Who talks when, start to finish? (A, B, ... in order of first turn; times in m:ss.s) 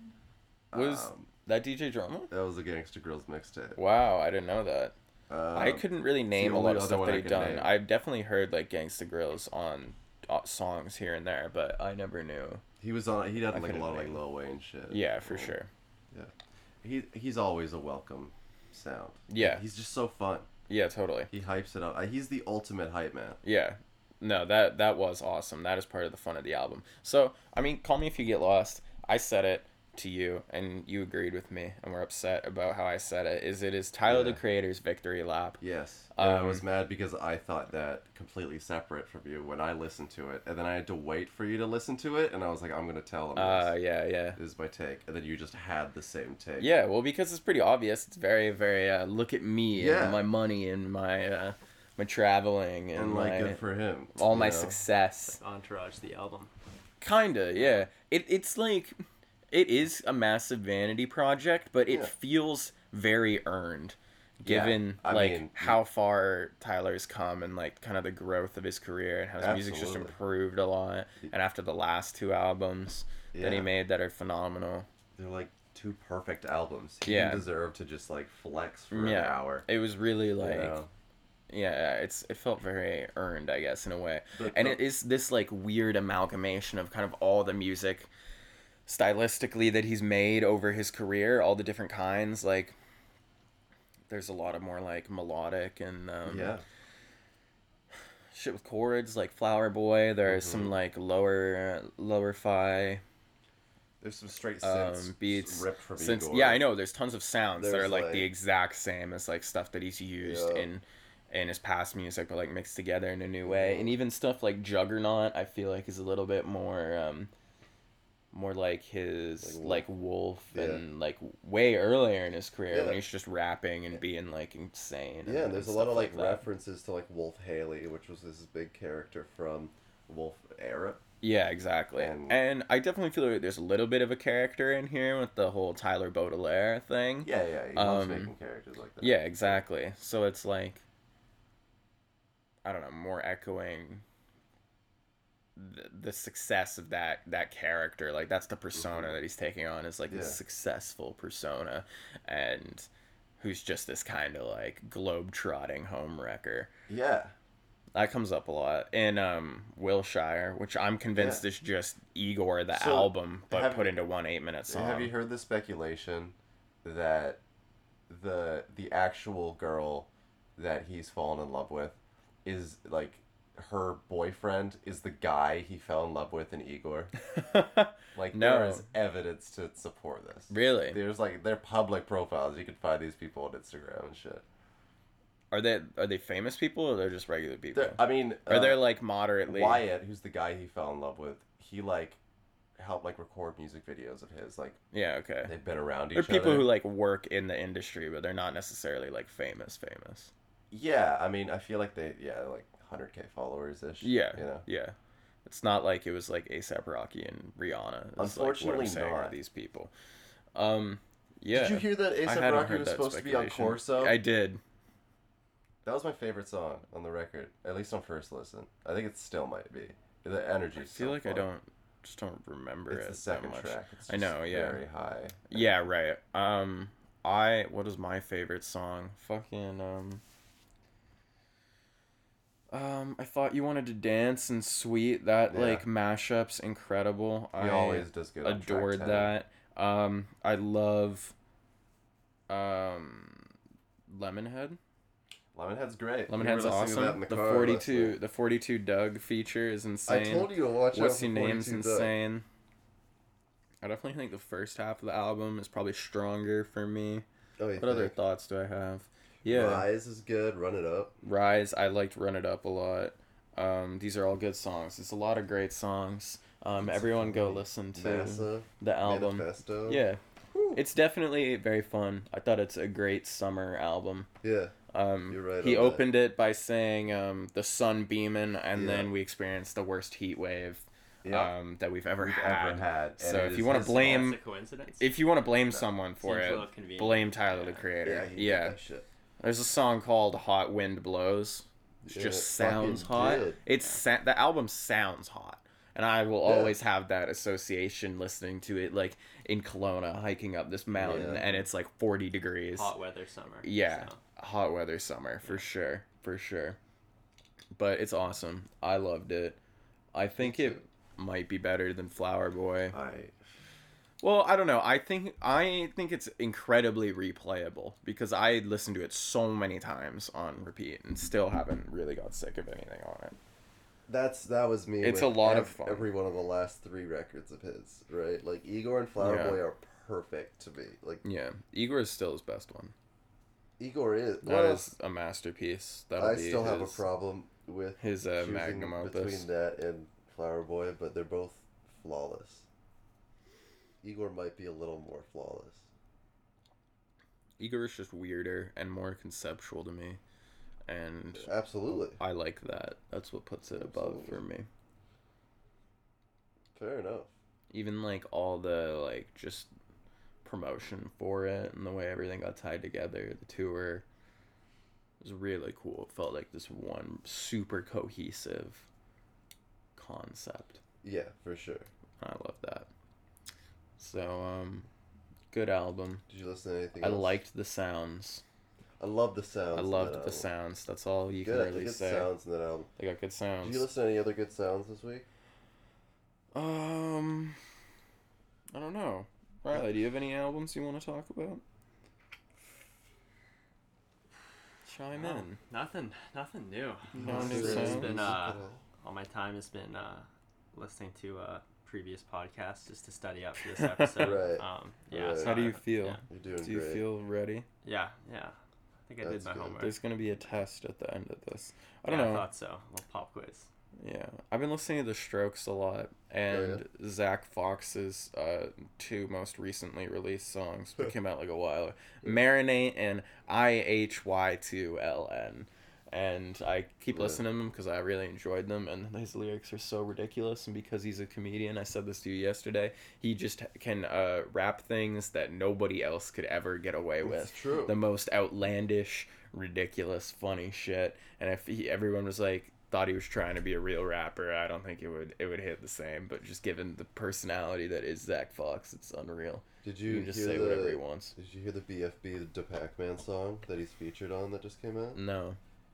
0:00.7-0:01.3 A
0:00.7-0:02.3 B
0:02.3-0:03.8 A
0:03.8-0:04.9 B
0:05.3-0:07.7 A
0:05.5-0:12.6 B
0:12.8-0:15.5 A
0:13.5-0:14.2 B
0:14.9-0:15.7 B
0:16.8-0:20.5 A
0:19.3-0:19.6 B
0:20.7-0:21.3 B
0:21.3-0:23.4 A
0:23.4-0:35.6 B
0:34.1-0:34.4 A
0:35.6-0:43.7 A
0:36.2-0:36.6 B
0:43.3-0:44.4 B
0:44.3-0:46.7 A
0:46.6-0:53.6 B
0:49.7-0:50.2 A
0:52.9-0:54.8 A
0:54.2-0:55.4 B
0:55.3-0:56.5 C
0:57.0-0:59.0 B
0:59.5-1:14.9 B
1:04.4-1:05.8 A
1:09.4-1:10.1 A
1:13.3-1:13.7 A
1:15.1-1:19.6 A
1:17.0-1:17.5 B
1:18.9-1:20.8 B
1:20.4-1:20.9 A
1:21.5-1:28.1 B
1:24.3-1:24.8 A
1:28.9-1:32.8 B
1:34.1-1:36.6 B
1:36.2-1:36.6 A
1:38.3-1:43.0 B
1:40.2-1:40.7 A
1:44.0-1:46.6 A
1:44.6-1:57.3 B
1:47.6-1:48.3 A
1:50.2-1:50.7 A
1:53.4-1:54.0 A
1:58.3-2:06.4 B
1:59.4-1:59.8 A
2:00.5-2:00.8 A
2:02.7-2:03.0 A
2:05.2-2:11.0 A
2:11.2-2:18.3 B
2:12.0-2:12.4 A
2:17.2-2:19.6 A
2:19.0-2:20.8 B
2:22.6-2:24.0 B
2:25.6-2:32.9 B
2:28.7-2:29.2 A
2:30.1-2:30.4 A
2:33.4-2:36.7 B
2:36.9-2:37.3 A
2:37.9-2:45.1 B
2:41.2-2:41.4 A
2:42.7-2:44.0 A
2:44.7-2:47.4 A
2:48.1-2:57.2 A
2:57.3-2:58.8 B
2:58.1-3:04.4 A
3:00.5-3:01.0 B
3:05.5-3:09.8 B
3:07.7-3:08.8 A
3:09.4-3:12.2 A
3:12.8-3:14.8 A
3:14.9-3:15.5 B
3:15.4-3:16.7 A
3:16.1-3:20.3 B
3:20.7-3:24.6 A
3:24.0-3:29.9 B
3:28.2-3:29.4 A
3:30.5-3:34.6 B
3:31.5-3:34.2 A
3:35.8-3:41.5 A
3:40.8-3:44.8 B
3:42.9-3:45.8 A
3:45.5-3:50.2 B
3:52.7-4:01.3 B
3:55.5-3:55.8 A
3:57.6-3:59.3 A
4:02.5-4:03.5 B
4:04.1-4:04.8 B
4:05.5-4:08.2 A
4:06.3-4:12.4 B
4:10.0-4:12.1 A
4:13.8-4:17.2 B
4:17.6-4:18.1 A
4:17.8-4:19.9 B
4:19.4-4:21.2 A
4:21.2-4:30.2 B
4:26.8-4:30.8 A
4:30.7-4:34.3 B
4:34.4-4:34.7 A
4:34.9-4:44.4 B
4:35.3-4:36.0 A
4:38.7-4:39.1 A
4:41.2-4:41.5 A
4:42.2-4:44.3 A
4:43.8-4:45.0 C
4:45.0-4:48.8 B
4:46.2-4:47.8 C
4:48.0-4:49.0 A
4:49.4-5:02.9 B
4:52.0-4:53.6 A
4:53.7-4:54.0 C
4:56.4-4:56.8 A
5:00.9-5:01.5 A
5:02.7-5:04.2 C
5:03.6-5:06.8 B
5:07.8-5:09.6 B
5:10.1-5:13.0 B
5:10.4-5:10.8 A
5:12.9-5:13.4 A
5:14.2-5:23.3 B
5:24.1-5:31.2 A
5:25.0-5:26.1 B
5:29.2-5:29.6 B
5:31.2-5:32.9 B
5:33.8-5:34.9 A
5:34.4-5:37.0 B
5:36.2-5:42.6 A
5:38.0-5:39.5 B
5:44.0-5:45.9 A
5:47.6-5:50.2 B
5:50.9-5:54.7 B
5:51.4-5:52.2 A
5:53.7-5:54.4 A
5:56.7-5:57.3 A
5:57.7-5:59.7 B
6:00.4-6:04.0 B
6:05.2-6:08.8 B
6:10.0-6:10.8 B
6:11.0-6:11.9 A
6:12.2-6:12.9 B
6:14.0-6:14.9 B
6:15.5-6:16.2 B
6:16.3-6:17.4 A
6:17.0-6:18.4 B
6:19.0-6:20.5 A
6:19.7-6:22.3 B
6:21.4-6:22.9 A
6:23.0-6:23.8 B
6:23.6-6:25.2 A
6:26.5-6:27.6 B
6:28.7-6:31.6 B
6:34.8-6:35.6 B
6:35.1-6:46.2 C
6:37.1-6:38.3 B
6:37.2-6:38.8 A
6:43.8-6:44.5 B
6:44.2-6:45.7 A
6:45.3-6:47.7 B
6:46.3-6:47.0 A
6:47.8-6:49.9 C
6:49.2-6:49.8 A
6:49.8-6:52.5 B
6:52.0-6:53.7 C
6:54.0-7:31.3 B
6:56.5-6:56.8 A
7:07.1-7:07.4 A
7:17.2-7:18.0 A
7:29.8-7:35.2 A
7:35.1-7:35.6 B